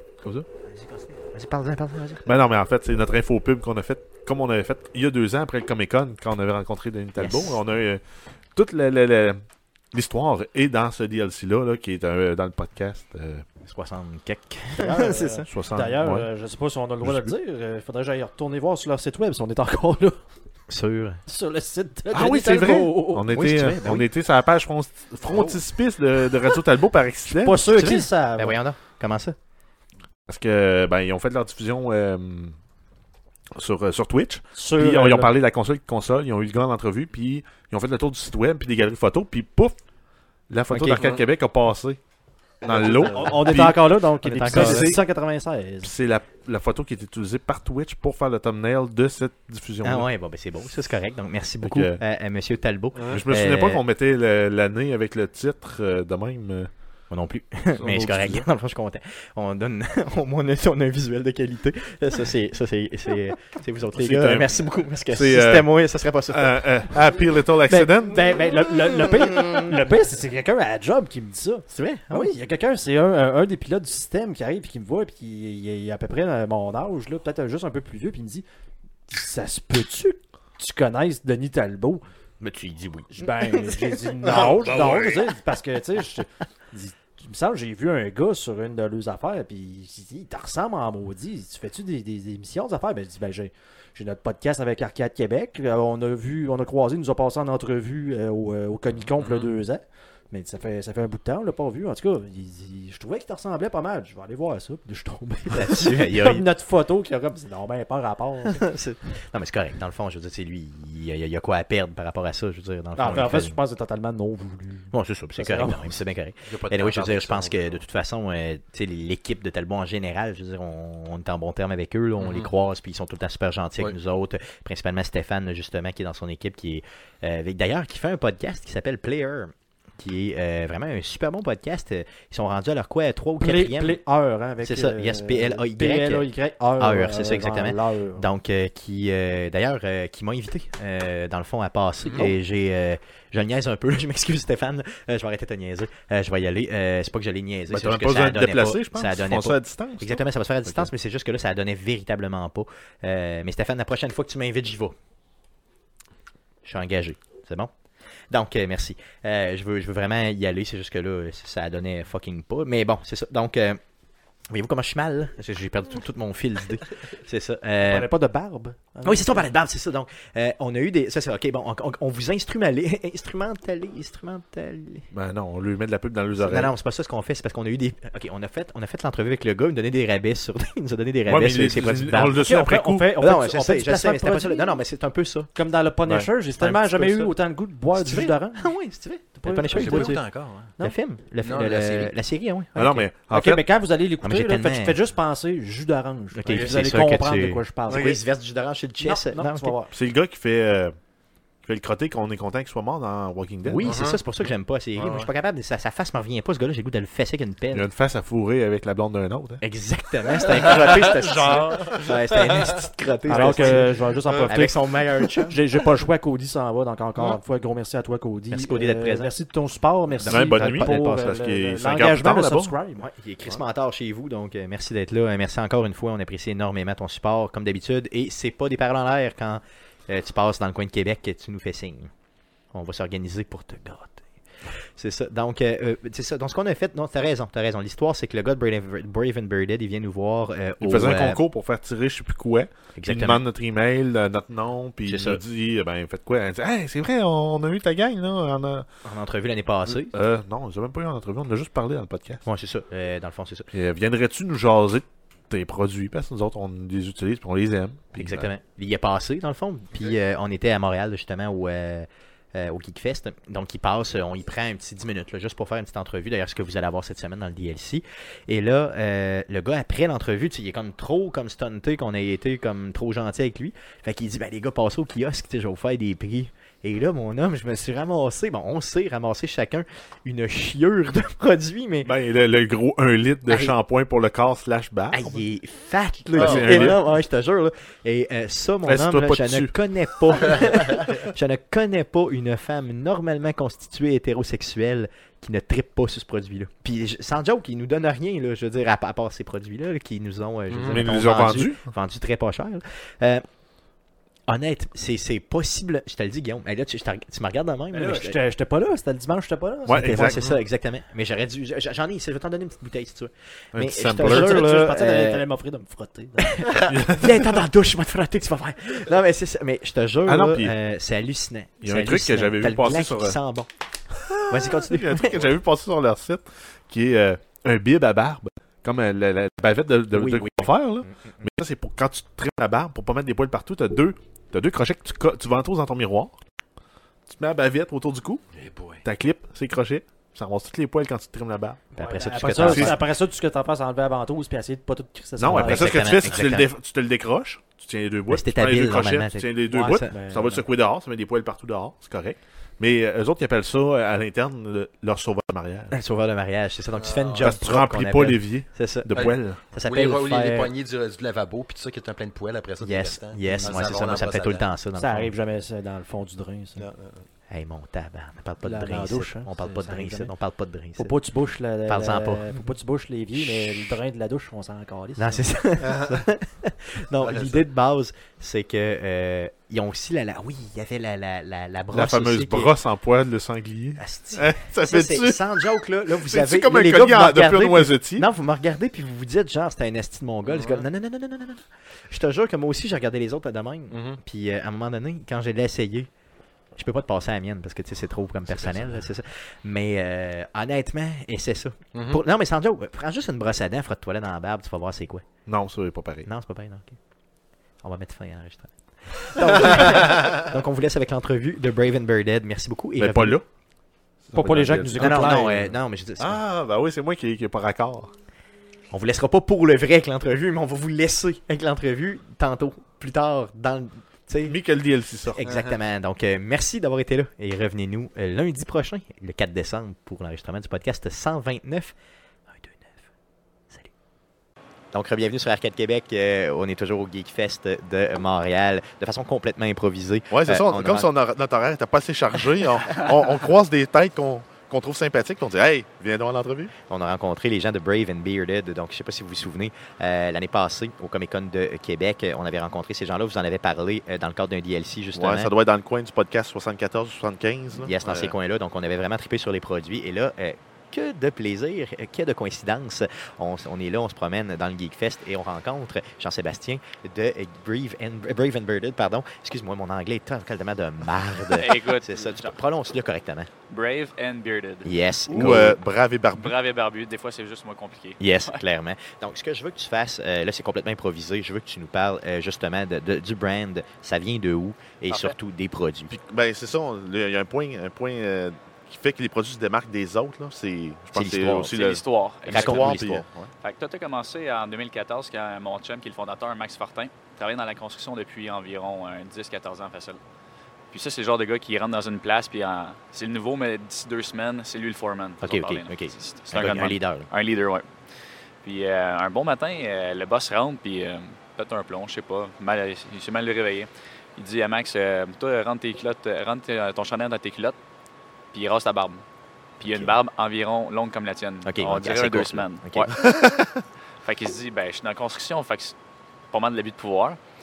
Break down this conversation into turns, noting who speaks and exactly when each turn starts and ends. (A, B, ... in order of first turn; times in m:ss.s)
0:00.7-0:02.3 A
0:02.2-0:08.0 B
0:07.2-0:07.6 A
0:08.5-0:09.4 B
0:09.9-0:13.5 B
0:13.6-0:15.4 A
0:14.8-0:20.2 C
0:15.4-0:16.3 B
0:17.0-0:17.3 B
0:20.7-0:21.2 A
0:21.3-0:23.5 C
0:22.1-0:27.7 B
0:23.3-0:24.0 A
0:27.3-0:28.6 C
0:27.7-0:29.4 A
0:30.3-0:32.6 B
0:33.5-0:39.8 B
0:34.5-0:35.3 C
0:40.5-0:42.0 B
0:40.9-0:41.2 D
0:42.6-0:43.9 B
0:42.7-0:43.2 D
0:42.7-0:45.9 C
0:43.5-0:45.0 A
0:44.4-0:45.0 B
0:45.8-0:50.1 B
0:49.8-0:53.8 A
0:51.6-0:52.0 B
0:53.1-0:56.7 B
0:57.1-1:06.7 A
0:57.8-0:58.4 B
1:04.0-1:04.5 B
1:05.1-1:05.7 B
1:06.3-1:08.3 B
1:07.7-1:18.4 C
1:09.3-1:09.7 A
1:11.7-1:12.3 A
1:19.1-1:22.0 C
1:22.4-1:24.4 A
1:23.1-1:48.6 C
1:45.5-1:46.4 A
1:48.4-1:53.6 A
1:53.0-1:55.9 C
1:54.9-2:14.0 A
1:56.4-1:57.8 D
2:02.2-2:02.5 D
2:13.4-2:18.3 C
2:14.6-2:16.3 A
2:16.8-2:34.9 A
2:22.0-2:22.3 D
2:27.7-2:30.9 B
2:36.6-2:37.7 A
2:38.3-2:43.8 A
2:44.5-2:48.1 A
2:47.8-2:49.4 C
2:49.0-2:55.1 A
2:55.1-2:56.7 B
2:56.4-3:02.4 A
3:01.3-3:03.1 B
3:02.2-3:04.8 C
3:03.2-3:05.5 A
3:05.5-3:08.7 C
3:06.6-3:07.3 A
3:07.9-3:10.2 A
3:09.4-3:10.2 C
3:09.7-3:10.7 D
3:10.8-3:13.1 A
3:11.4-3:12.1 D
3:12.8-3:13.6 B
3:13.3-3:18.2 C
3:14.2-3:15.0 A
3:16.3-3:19.7 A
3:16.5-3:16.8 D
3:17.9-3:18.2 D
3:19.0-3:19.9 C
3:19.9-3:20.9 B
3:21.6-3:24.0 B
3:23.6-3:27.9 A
3:23.8-3:24.2 D
3:25.0-3:25.3 D
3:27.7-3:29.6 B
3:29.6-3:35.6 A
3:30.9-3:32.0 C
3:33.2-3:43.1 C
3:38.5-3:39.3 A
3:40.2-3:41.1 A
3:40.2-3:42.7 B
3:43.0-3:52.1 A
3:52.7-4:01.4 A
4:00.8-4:08.9 B
4:03.0-4:03.4 A
4:05.0-4:05.4 A
4:09.0-4:10.1 A
4:09.9-4:12.4 B
4:12.4-4:13.7 A
4:13.7-4:18.5 B
4:18.2-4:42.1 A
4:42.0-4:45.3 B
4:43.5-4:43.7 A
4:45.1-5:03.4 A
4:46.3-4:47.0 B
4:46.4-4:46.9 D
4:48.9-4:49.7 B
5:00.7-5:01.1 D
5:00.9-5:01.8 B
5:04.5-5:08.4 A
5:07.9-5:10.4 C
5:09.9-5:10.4 B
5:10.1-5:15.4 A
5:13.7-5:14.7 B
5:14.2-5:16.7 C
5:16.4-5:23.7 A
5:16.8-5:17.5 B
5:20.2-5:20.7 B
5:21.8-5:23.4 B
5:24.2-5:36.3 B
5:24.5-5:25.4 A
5:30.1-5:31.4 A
5:37.3-5:38.4 B
5:38.5-5:39.0 D
5:39.0-5:41.9 B
5:41.9-5:43.0 A
5:41.9-5:46.2 C
5:42.4-5:43.0 B
5:45.4-5:56.0 B
5:45.5-5:46.7 A
5:48.3-5:50.2 A
5:49.7-5:50.6 C
5:55.9-6:00.7 A
5:57.0-5:57.6 D
5:57.4-5:59.7 B
5:59.1-6:04.7 D
6:02.8-6:05.3 A
6:04.9-6:06.8 C
6:06.8-6:07.2 D
6:07.5-6:11.1 A
6:08.6-6:10.3 C
6:11.0-6:15.4 C
6:11.9-6:12.6 A
6:13.3-6:13.9 A
6:15.2-6:22.7 A
6:15.8-6:16.2 D
6:17.2-6:17.6 D
6:21.9-6:25.4 B
6:24.0-6:36.1 A
6:26.2-6:28.2 B
6:30.5-6:30.8 D
6:33.9-6:34.2 D
6:36.7-6:45.3 A
6:41.9-6:42.2 D
6:45.4-6:46.3 B
6:46.2-6:47.0 A
6:47.8-6:53.4 A
6:53.0-6:53.4 B
6:54.2-6:55.6 B
6:54.3-6:55.7 C
6:55.0-6:56.4 A
6:56.2-6:58.1 B
6:58.9-7:04.6 A
7:04.4-7:05.4 B
7:05.3-7:11.9 A
7:05.4-7:05.8 D
7:12.5-7:13.0 A
7:14.9-7:21.1 A
7:20.3-7:26.7 E
7:26.9-7:35.5 A
7:35.1-7:38.3 E
7:37.7-7:53.5 A
7:51.5-7:52.5 F
7:53.7-7:55.6 F
7:54.8-7:55.8 A
7:55.3-7:56.5 E
7:56.4-7:58.6 F
7:58.2-8:06.1 A
8:05.1-8:05.3 F
8:06.1-8:13.5 E
8:11.1-8:11.7 A
8:11.7-8:13.0 F
8:12.5-8:13.2 A
8:13.6-8:20.2 F
8:20.9-8:27.9 F
8:25.4-8:27.3 A
8:28.6-8:37.8 F
8:38.5-8:39.2 F
8:39.8-8:43.3 F
8:39.8-8:40.1 A
8:41.6-8:43.2 A
8:43.2-8:43.6 E
8:44.2-8:45.9 F
8:46.5-8:47.4 F